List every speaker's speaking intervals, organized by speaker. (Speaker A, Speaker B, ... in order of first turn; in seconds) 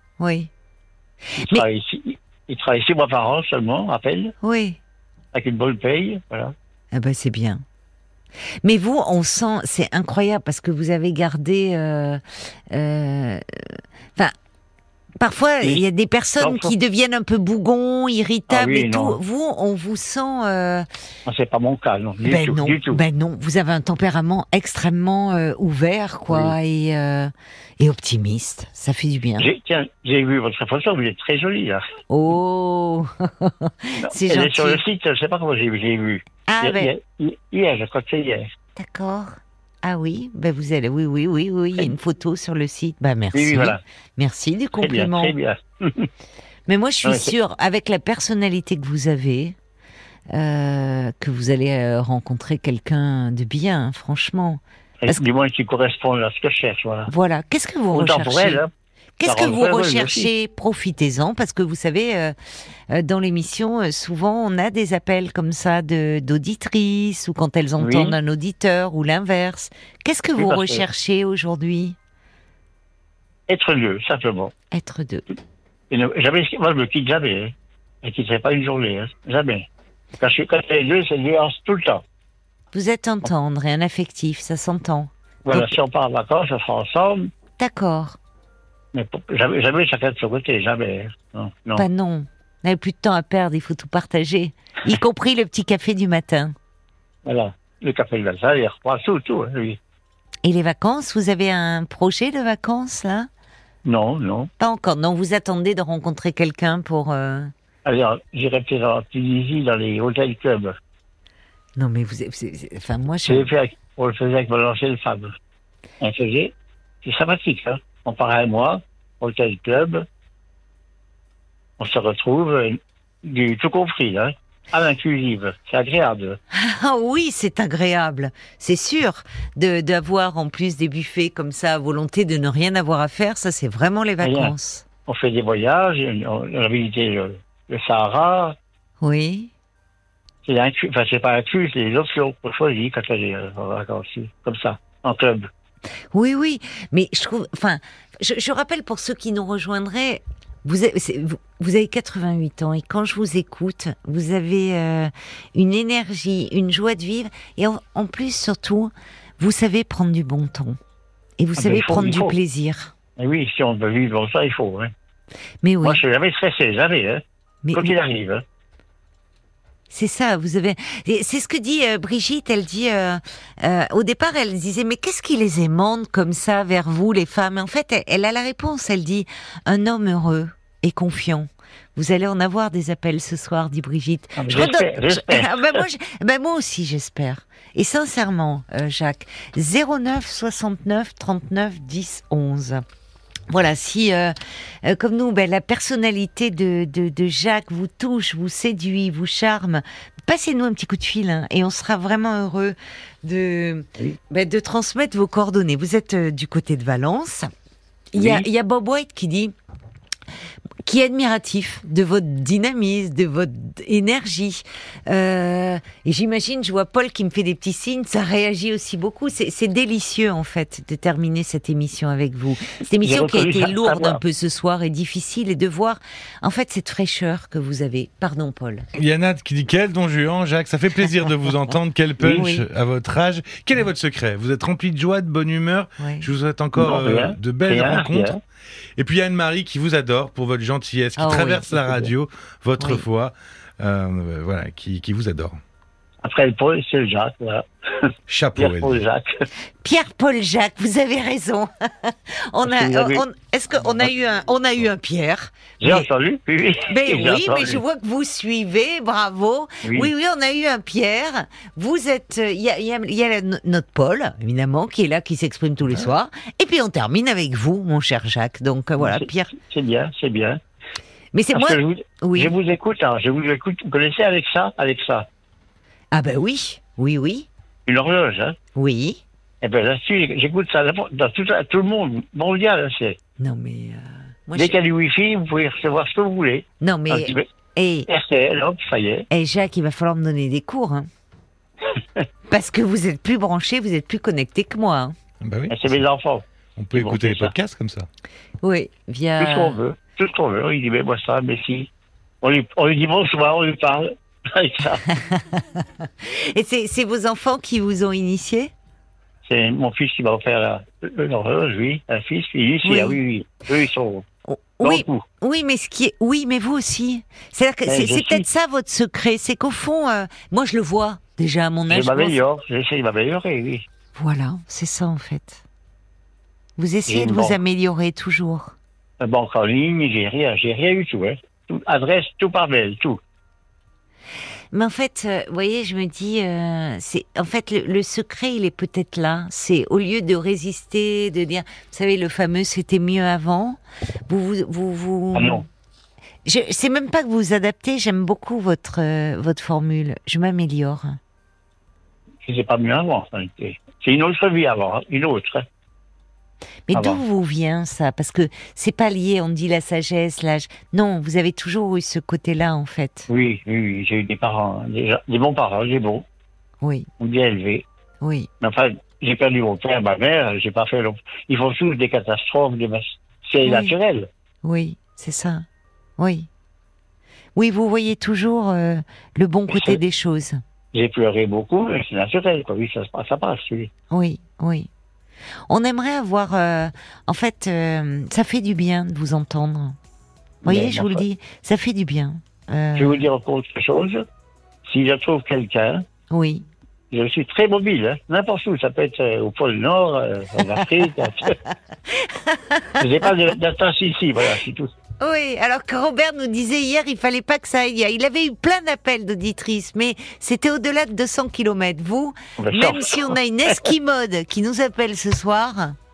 Speaker A: 0.2-0.5, 4.4-4.8, 6.9-7.6, 8.6-14.3, 15.2-20.9, 22.2-29.5, 32.1-34.8, 36.5-36.9, 38.8-45.4, 46.7-49.5, 50.3-55.2, 57.1-58.6, 59.2-62.3, 62.9-72.0, 74.7-75.2, 82.7-85.7, 87.6-88.2, 91.8-96.5, 100.4-103.3, 104.6-107.5, 111.8-113.5, 126.5-134.8, 139.0-139.5, 146.1-160.8, 161.4-162.9, 165.6-166.0, 167.6-167.9, 169.9-192.8, 193.5-207.5, 208.1-209.5, 210.8-228.9, 232.2-232.6, 236.0-236.3, 241.2-242.1, 242.8-243.1, 249.8-256.1, 256.9-269.5, 271.3-272.5, 276.1-277.5, 278.8-279.2, 283.4-284.8, 286.8-288.1, 289.3-291.1, 292.5-295.1, 298.6-299.8, 305.1-308.7, 312.8-313.2, 314.5-322.4, 324.1-325.6, 326.8-328.7, 334.7-345.6, 346.4-351.2, 356.9-363.3, 366.8-367.1, 368.2-368.5, 373.6-373.9, 374.6-375.6, 376.2-376.5, 377.6-380.6, 384.1-384.9, 385.7-390.0, 390.6-393.2, 396.3-396.6, 402.2-402.8, 405.2-415.9
Speaker B: 1.4-4.3, 5.3-6.5, 16.4-16.7, 18.5-19.2, 21.2-23.0, 26.3-26.6, 29.4-31.8, 34.0-38.5, 43.3-43.8, 44.8-46.1, 47.0-47.3, 55.0-57.1, 57.9-58.7, 59.2-60.3, 67.8-68.1, 70.4-70.8, 73.5-74.5, 75.9-79.6, 80.2-82.0, 85.5-87.3, 88.9-91.8, 97.2-99.8, 103.8-104.5, 107.8-110.7, 113.2-115.3, 116.0-116.5, 117.0-120.0, 121.8-126.4, 134.2-134.5, 135.1-138.5, 140.4-145.5, 161.6-162.3, 163.2-164.9, 165.8-167.2, 167.7-168.4, 184.4-185.8, 208.2-208.4, 223.0-224.2, 232.2-232.5, 236.8-238.4, 246.2-249.3, 252.6-253.2, 255.8-257.8, 259.8-260.1, 269.0-270.6, 271.5-275.2, 277.9-278.6, 279.6-283.2, 284.5-287.4, 288.1-289.3, 295.7-297.5, 299.4-301.9, 302.4-305.0, 309.4-314.2, 314.8-315.2, 317.9-318.4, 321.9-323.8, 327.1-327.6, 329.2-333.2, 345.3-345.6, 352.4-355.6, 356.9-357.2, 363.3-366.2, 367.2-367.8, 368.6-374.3, 379.7-380.0, 380.9-383.9, 390.6-391.2, 392.9-394.2, 394.9-396.0, 397.1-401.5, 403.0-404.9, 412.6-413.4
Speaker C: 228.9-238.4, 238.9-245.6, 248.3-249.0, 295.4-295.9, 296.8-298.1